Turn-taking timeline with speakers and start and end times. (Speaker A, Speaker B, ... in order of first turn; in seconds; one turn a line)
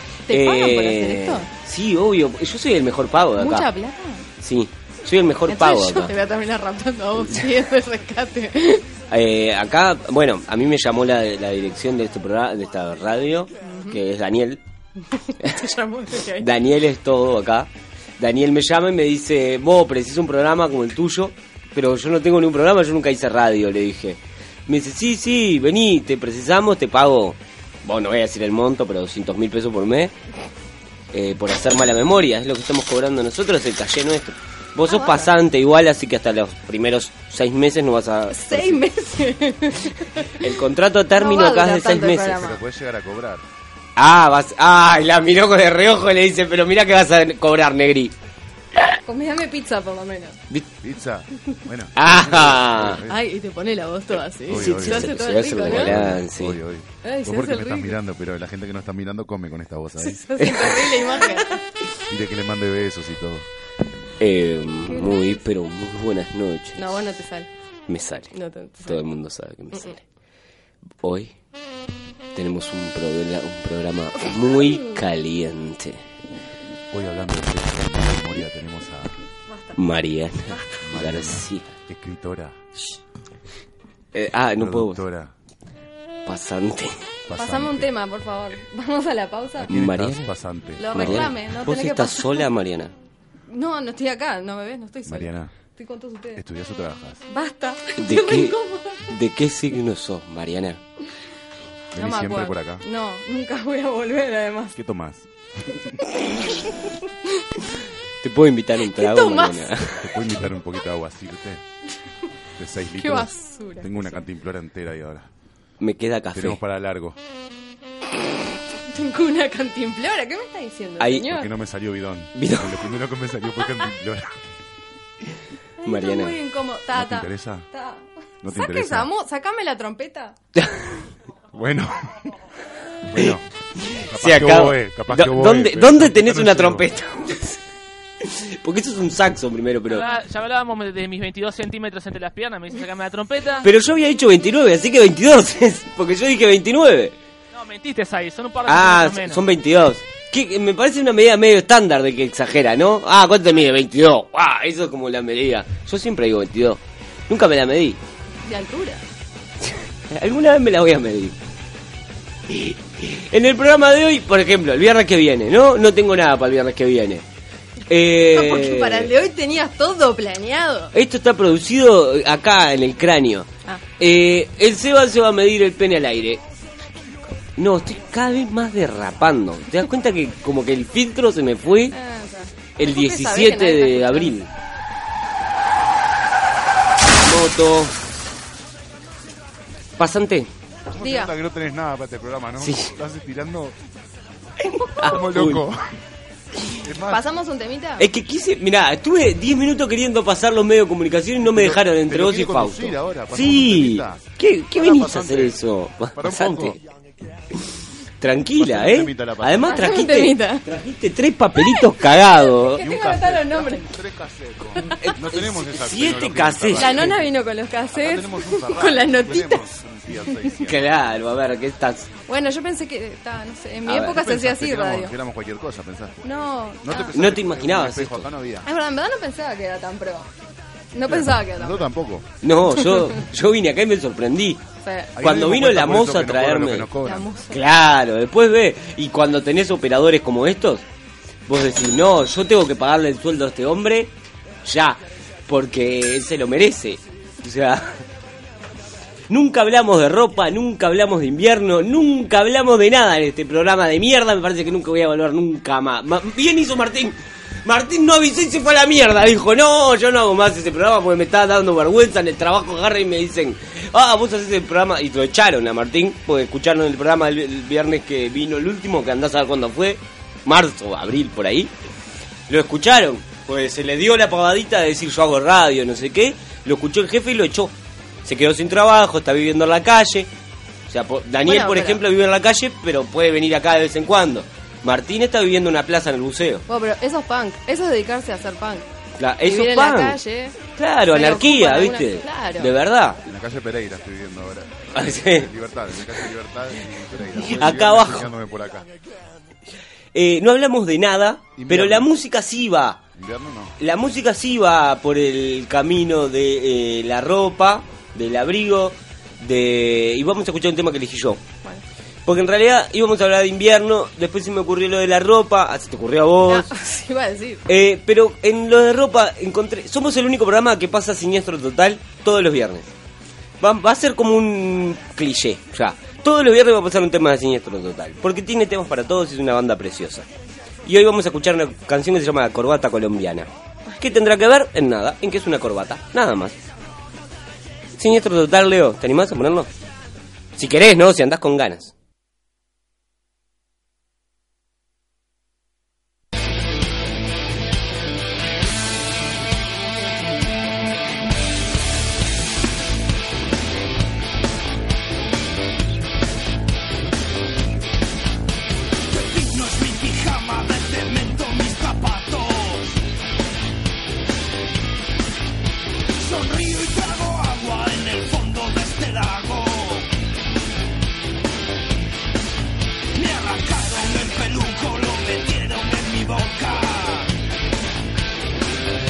Speaker A: 0.3-1.5
Speaker B: 0.3-3.7
Speaker A: 3.4-4.3
Speaker B: 4.4-6.1
Speaker A: 5.5-8.9
Speaker B: 9.1-14.6
Speaker A: 13.6-14.0
Speaker A: 15.4-16.5
Speaker B: 16.4-30.1
Speaker B: 31.1-38.8
Speaker A: 34.9-35.3
Speaker A: 38.3-40.5
Speaker B: 40.4-42.4
Speaker A: 41.1-42.6
Speaker C: 42.3-43.4
Speaker B: 44.0-48.1
Speaker A: 49.0-50.4
Speaker C: 50.8-53.2
Speaker B: 52.0-53.0
Speaker A: 53.1-55.9
Speaker C: 54.5-60.2
Speaker B: 54.5-56.6
Speaker A: 57.0-58.0
Speaker A: 60.0-61.6
Speaker B: 60.4-60.9
Speaker C: 62.1-63.5
Speaker B: 64.2-67.0
Speaker A: 64.9-65.4
Speaker A: 66.8-67.5
Speaker B: 67.9-68.3
Speaker A: 68.3-69.1
Speaker B: 68.8-70.0
Speaker B: 71.0-71.3
Speaker B: 72.3-76.0
Speaker A: 74.5-74.9
Speaker C: 76.9-79.2
Speaker A: 79.5-79.8
Speaker B: 79.8-81.6
Speaker A: 80.5-80.8
Speaker C: 80.8-82.5
Speaker B: 84.1-85.0
Speaker C: 84.6-85.3
Speaker B: 86.2-87.0
Speaker C: 87.3-87.9
Speaker A: 87.3-89.7
Speaker C: 89.6-91.3
Speaker B: 89.7-90.3
Speaker A: 90.8-92.5
Speaker B: 90.9-92.9
Speaker A: 93.5-96.4
Speaker C: 95.0-95.5
Speaker C: 96.3-97.2
Speaker A: 97.3-99.1
Speaker B: 98.0-98.5
Speaker B: 99.1-100.8
Speaker C: 101.9-102.8
Speaker A: 102.0-104.7
Speaker C: 104.7-105.3
Speaker B: 108.2-110.1
Speaker A: 108.9-109.8
Speaker C: 110.0-111.6
Speaker C: 112.5-115.3
Speaker A: 113.0-114.2
Speaker B: 115.8-116.6
Speaker C: 116.3-117.2
Speaker A: 118.9-121.5
Speaker B: 121.0-121.3
Speaker C: 121.2-124.3
Speaker B: 122.3-122.8
Speaker A: 125.8-130.3
Speaker B: 125.8-126.3
Speaker C: 126.9-127.7
Speaker C: 128.4-129.1
Speaker C: 131.5-132.1
Speaker C: 133.1-133.4
Speaker B: 133.8-137.6
Speaker C: 134.0-136.9
Speaker B: 138.2-140.1
Speaker D: 139.9-143.7
Speaker B: 143.6-147.2
Speaker D: 147.5-149.4
Speaker B: 148.7-158.0
Speaker A: 158.4-159.0
Speaker B: 159.6-161.4
Speaker B: 162.5-167.2
Speaker B: 167.9-169.1
Speaker A: 168.2-170.9
Speaker B: 170.9-176.4
Speaker B: 177.6-181.9
Speaker A: 181.9-184.3
Speaker B: 182.8-184.5
Speaker B: 187.2-187.9
Speaker B: 190.0-190.5
Speaker C: 190.9-193.8
Speaker A: 191.0-191.3
Speaker B: 192.6-192.9
Speaker B: 194.9-195.6
Speaker C: 195.0-195.9
Speaker C: 196.8-197.3
Speaker A: 197.1-198.1
Speaker B: 198.0-206.8
Speaker C: 201.4-205.6
Speaker C: 206.1-206.8
Speaker B: 208.2-212.9
Speaker C: 208.6-209.8
Speaker A: 209.6-210.6
Speaker A: 212.7-213.9
Speaker C: 212.7-217.2
Speaker B: 215.0-217.2
Speaker A: 216.8-219.7
Speaker C: 217.9-220.9
Speaker B: 220.6-222.1
Speaker A: 222.3-225.1
Speaker B: 223.9-224.2
Speaker C: 224.0-228.7
Speaker A: 226.2-227.2
Speaker B: 227.1-228.3
Speaker A: 228.6-230.3
Speaker A: 230.9-231.9
Speaker C: 231.0-232.3
Speaker B: 232.4-234.6
Speaker A: 232.8-233.1
Speaker A: 234.8-235.1
Speaker C: 235.2-237.3
Speaker B: 235.2-236.9
Speaker A: 237.0-237.6
Speaker B: 237.5-240.8
Speaker B: 241.5-244.1
Speaker B: 244.6-248.0
Speaker B: 249.3-271.7
Speaker B: 272.5-277.7
Speaker B: 278.2-280.3
Speaker B: 280.9-286.6
Speaker A: 281.4-282.0
Speaker A: 286.7-288.9
Speaker B: 289.2-290.2
Speaker A: 289.4-290.6
Speaker B: 290.8-293.2
Speaker A: 291.1-292.7
Speaker C: 293.2-298.9
Speaker B: 294.9-295.5
Speaker B: 297.4-298.3
Speaker B: 300.1-303.0
Speaker C: 301.6-302.1
Speaker C: 303.2-303.7
Speaker B: 303.8-311.4
Speaker B: 312.2-316.7
Speaker A: 316.5-317.6
Speaker B: 317.7-322.9
Speaker B: 323.6-330.3
Speaker B: 330.8-333.5
Speaker B: 334.0-336.6
Speaker B: 338.0-339.7
Speaker B: 340.6-341.9
Speaker E: 359.1-362.9
Speaker E: 366.2-370.1
Speaker E: 373.1-377.3